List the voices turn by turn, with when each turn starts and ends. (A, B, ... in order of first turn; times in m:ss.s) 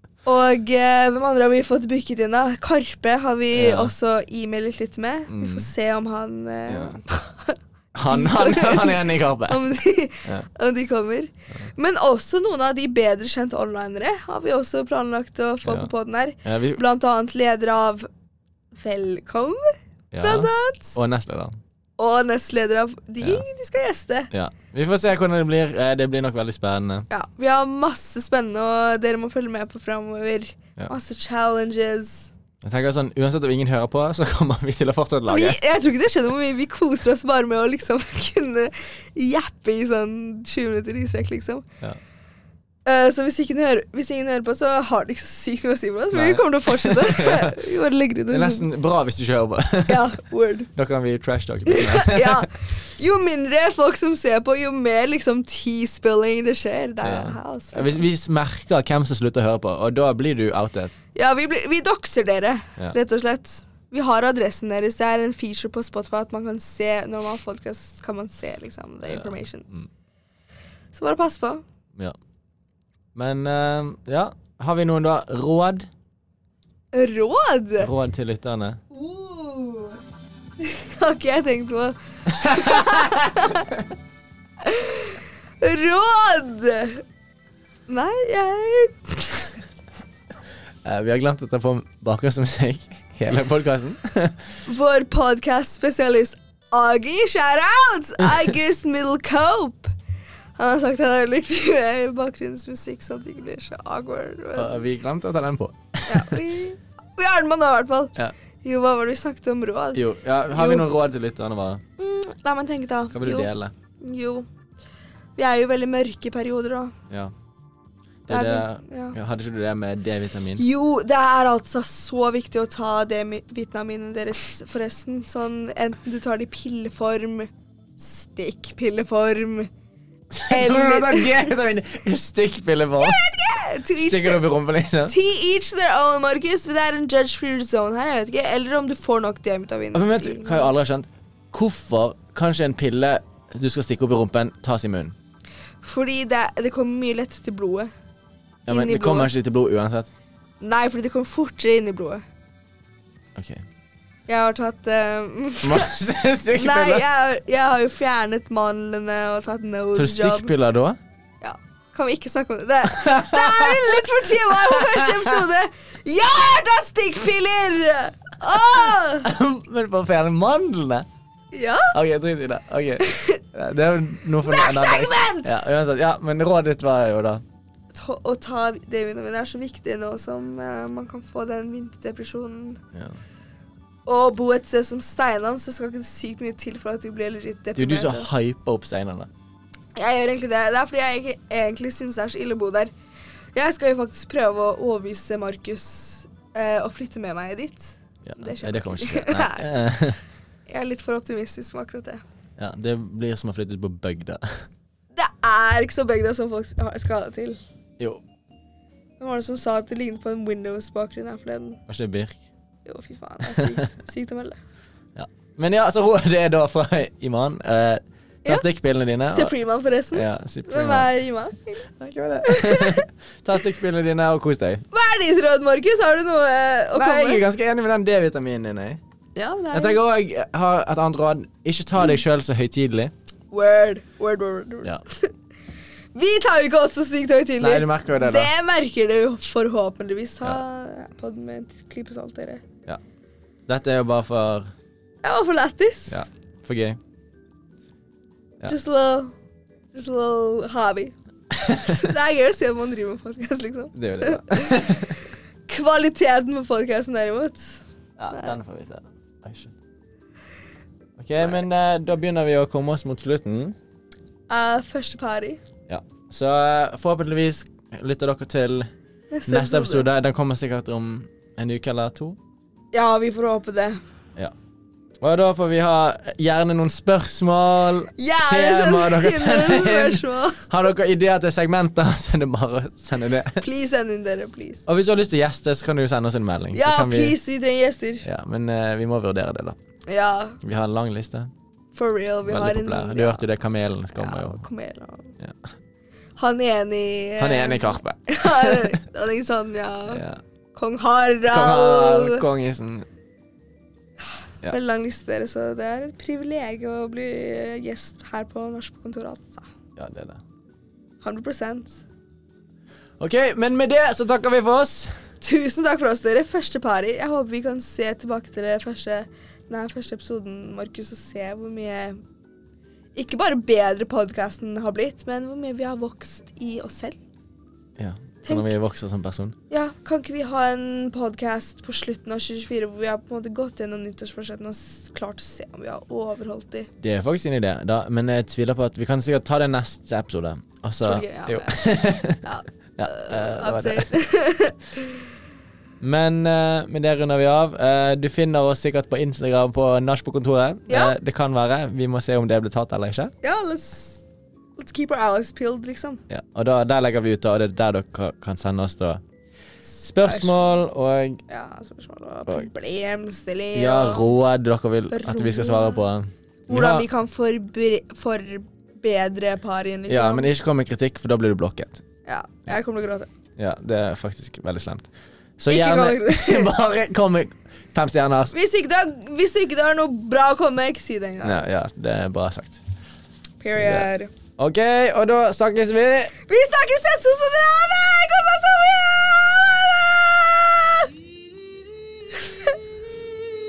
0:00.2-0:18.1 A
0:03.5-0:03.9 B
0:05.3-0:05.7 B
0:06.7-0:07.0 B
0:07.9-0:09.6 B
0:15.6-0:15.9 B
0:16.4-0:16.8 B
0:18.7-0:21.0 A
0:20.1-0:21.6 B
0:22.0-0:24.3 A
0:24.3-0:27.1 B
0:27.1-0:32.3 A
0:32.6-0:35.6 B
0:35.3-0:41.6 A
0:42.8-0:48.7 A
0:46.1-0:47.6 B
0:48.3-0:50.2 B
0:49.9-0:50.7 A
0:50.7-0:52.5 B
0:51.6-0:58.1 A
0:57.0-1:00.9 B
1:01.1-1:09.6 A
1:09.0-1:09.9 B
1:10.9-1:11.6 A
1:13.1-1:15.9 B
1:16.9-1:17.9 A
1:17.8-1:18.8 B
1:18.9-1:20.0 A
1:20.6-1:23.8 A
1:22.3-1:23.8 B
1:24.6-1:27.0 A
1:27.9-1:29.6 A
1:30.8-1:34.4 B
1:34.6-1:39.9 A
1:40.6-1:44.8 A
1:44.6-1:46.4 B
1:46.1-1:50.9 A
1:49.9-1:51.8 B
1:52.0-1:54.5 A
1:53.1-1:53.7 B
1:55.4-1:56.9 A
1:58.2-2:00.6 B
1:58.3-1:59.2 A
2:00.6-2:09.7 A
2:10.3-2:13.2 B
2:10.5-2:11.5 A
2:13.0-2:14.4 A
2:13.9-2:15.1 B
2:15.0-2:20.7 A
2:19.9-2:25.2 B
2:25.8-2:27.9 A
2:28.6-2:30.1 B
2:28.7-2:29.3 A
2:30.6-2:32.2 A
2:33.4-2:33.6 B
2:34.3-2:35.9 A
2:35.6-2:37.1 B
2:36.5-2:40.5 A
2:40.0-2:41.0 B
2:41.4-2:49.3 A
2:42.9-2:45.5 B
2:49.2-2:51.1 B
2:51.5-2:51.9 A
2:51.9-2:57.4 B
2:53.0-2:53.4 A
2:54.4-2:55.7 A
2:57.9-3:02.8 A
3:02.9-3:03.2 B
3:04.0-3:08.3 A
3:07.8-3:09.3 B
3:10.0-3:12.9 A
3:13.5-3:19.7 A
3:18.2-3:20.2 B
3:20.7-3:22.2 A
3:22.6-3:24.6 B
3:25.2-3:27.6 A
3:29.2-3:31.8 A
3:31.9-3:32.4 B
3:32.8-3:34.6 A
3:33.4-3:33.8 B
3:35.1-3:39.5 B
3:39.2-3:41.9 A
3:40.1-3:41.1 B
3:42.0-3:44.8 B
3:42.4-3:43.1 A
3:44.9-3:47.4 A
3:46.9-3:49.0 B
3:49.3-3:50.0 A
3:49.7-3:53.1 B
3:53.5-3:55.3 A
3:56.1-4:02.6 A
3:57.6-3:58.5 B
4:03.7-4:04.7 B
4:05.2-4:06.2 A
4:06.1-4:07.0 B
4:08.6-4:09.3 A
4:09.9-4:15.1 A
4:11.5-4:12.0 B
4:13.9-4:15.2 B
4:15.7-4:18.6 A
4:18.2-4:19.7 B
4:21.2-4:23.8 B
4:24.5-4:25.6 A
4:25.9-4:28.9 B
4:29.3-4:30.1 A
4:29.5-4:32.4 B
4:32.9-4:34.0 A
4:35.2-4:43.6 B
4:38.2-4:40.7 A
4:43.6-4:44.8 A
4:44.9-4:47.4 B
4:46.7-4:48.2 A
4:48.2-4:49.8 B
4:50.1-4:50.6 A
4:50.6-4:51.5 B
4:51.9-4:53.5 A
4:52.4-4:54.6 B
4:54.1-4:55.4 A
4:56.4-5:00.2 A
4:57.4-4:59.0 B
5:00.1-5:00.4 B
5:00.7-5:02.4 A
5:01.4-5:03.1 B
5:04.6-5:09.7 A
5:10.0-5:10.4 B
5:11.2-5:12.0 A
5:13.2-5:15.1 B
5:15.4-5:22.2 A
5:23.1-5:27.2 A
5:28.0-5:29.6 B
5:28.4-5:28.7 A
5:29.7-5:36.9 A
5:37.0-5:42.4 B
5:41.0-5:45.2 A
5:43.0-5:44.1 B
5:46.0-5:53.3 B
5:50.9-5:51.1 A
5:53.4-5:54.2 A
5:54.8-5:56.2 A
5:56.3-5:59.2 B
5:59.9-6:00.8 A
6:00.0-6:01.4 B
6:01.5-6:04.2 A
6:03.7-6:07.1 B
6:05.1-6:06.0 A
6:06.7-6:10.5 A
6:10.1-6:12.0 B
6:12.2-6:13.3 A
6:13.6-6:18.5 B
6:15.7-6:16.7 A
6:18.5-6:21.6 A
6:21.4-6:22.8 B
6:23.6-6:24.3 A
6:23.7-6:26.3 B
6:26.4-6:31.1 A
6:32.3-6:32.7 A